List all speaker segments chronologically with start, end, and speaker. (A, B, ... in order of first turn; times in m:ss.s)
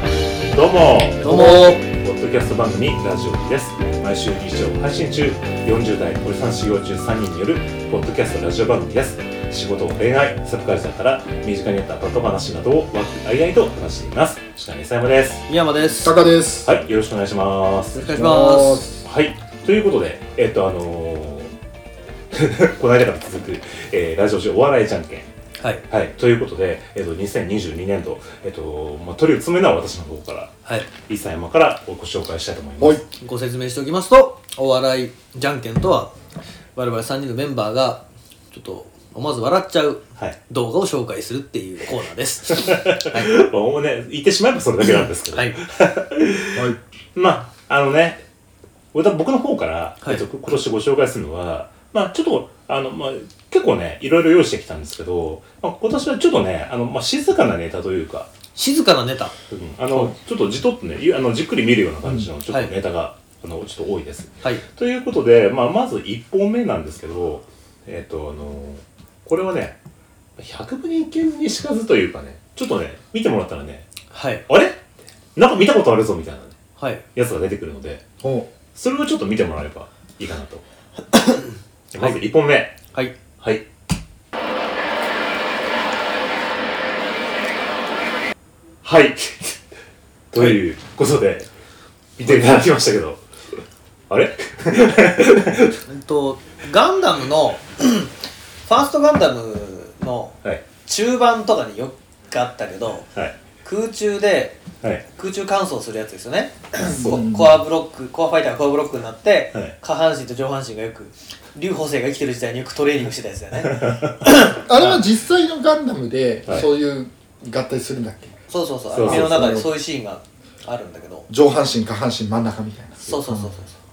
0:00.5-0:15.4 A
0:01.2-0:01.8 B
0:01.3-0:01.6 C
0:15.5-0:16.2 B
0:16.0-0:16.8 C
0:16.6-0:18.0 A
0:18.0-0:18.9 B
0:18.1-0:19.0 C
0:19.0-0:21.5 A
0:22.3-0:25.3 A
0:25.9-0:33.0 A
0:33.2-0:36.1 B
0:36.8-0:43.3 B
0:42.6-0:48.2 A
0:44.8-0:45.6 B
0:48.9-0:58.3 A
0:58.6-0:59.3 B
0:59.5-1:09.8 A
1:10.4-1:13.9 A
1:14.1-1:14.4 B
1:14.5-1:16.6 A
1:16.8-1:17.0 B
1:17.2-1:18.0 A
1:18.2-1:18.5 C
1:18.8-1:20.6 A
1:21.1-1:22.2 B
1:21.9-1:22.8 A
1:23.4-1:23.6 A
1:28.8-1:29.6 A
1:30.3-1:31.5 A
1:32.2-1:33.2 A
1:34.1-1:35.8 A
1:35.9-1:38.2 B
1:38.7-1:43.1 B
1:43.6-1:44.6 B
1:45.1-1:54.9 B
1:46.8-1:47.6 C
1:53.6-1:54.2 A
1:54.6-1:58.4 C
1:58.5-2:01.3 B
1:58.9-1:59.4 A
1:59.0-1:59.7 C
2:01.3-2:03.5 C
2:03.0-2:03.8 B